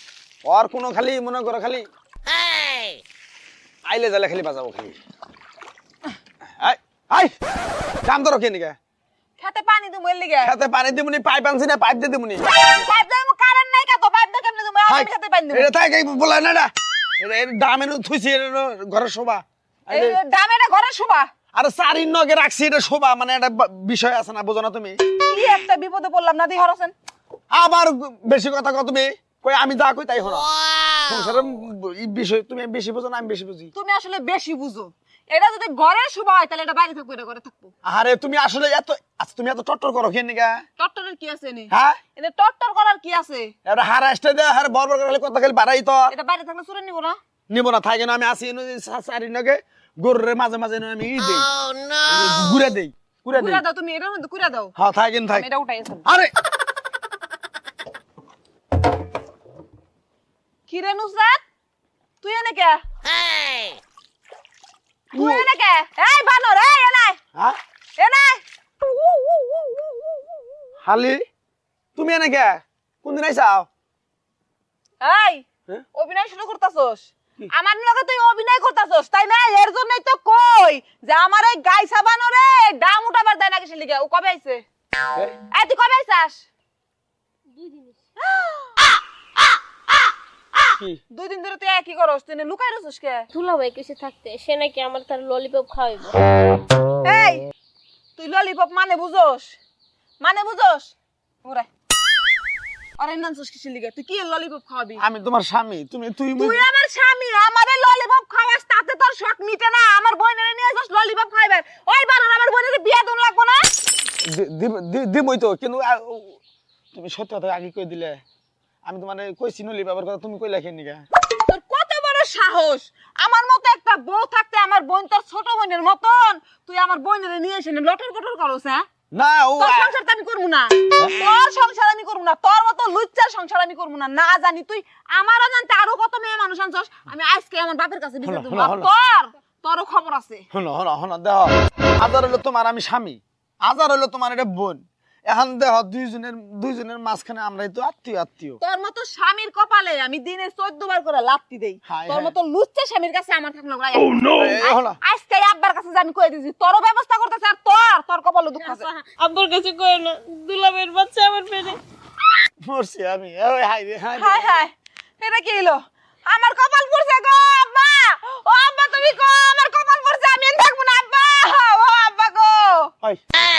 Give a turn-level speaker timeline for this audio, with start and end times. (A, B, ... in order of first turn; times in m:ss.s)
0:00.4-0:01.8 A
0:03.8-0:05.0 A
0:06.6-0:07.3 A
0:08.0-0:08.8 A
0:09.4-0:10.5 B
0:10.4-0:12.5 A
0:12.5-0:15.7 B
0:14.9-0:20.2 A
0:19.9-0:21.3 B
0:21.5-0:25.0 A
0:25.2-0:26.9 B
0:27.5-0:30.5 A
0:31.0-0:33.7 A
0:33.7-0:37.7 B
0:37.8-0:40.6 A
0:40.8-0:43.5 B
0:41.7-0:42.0 A
0:43.6-0:46.1 A
0:46.1-0:47.2 B
0:47.5-0:53.6 A
0:53.3-0:54.7 B
0:54.8-0:55.5 A
0:55.3-0:56.1 B
0:56.0-0:56.3 A
1:00.7-1:01.4 B
1:02.2-1:02.8 B
1:05.1-1:05.5 A
1:05.1-1:07.2 B
1:08.0-1:10.1 B
1:10.8-1:11.2 A
1:11.9-1:13.7 A
1:15.0-1:24.6 B
1:25.5-1:26.5 B
1:27.5-1:28.0 C
1:28.2-1:28.8 B
1:31.1-1:33.3 B
1:33.3-1:36.2 C
1:37.0-1:37.5 B
1:38.2-1:39.6 B
1:40.2-1:40.9 B
1:43.0-1:45.0 B
1:45.0-1:46.6 A
1:46.4-1:53.7 B
1:54.2-1:56.4 A
1:56.9-1:58.2 A
1:58.8-2:01.0 A
2:01.5-2:08.8 B
2:09.1-2:09.9 A
2:09.6-2:20.4 B
2:18.2-2:18.9 A
2:20.5-2:28.6 A
2:28.6-2:38.9 B
2:31.9-2:32.3 A
2:34.3-2:35.0 A
2:38.6-2:41.8 C
2:42.6-2:44.6 A
2:44.1-2:52.9 B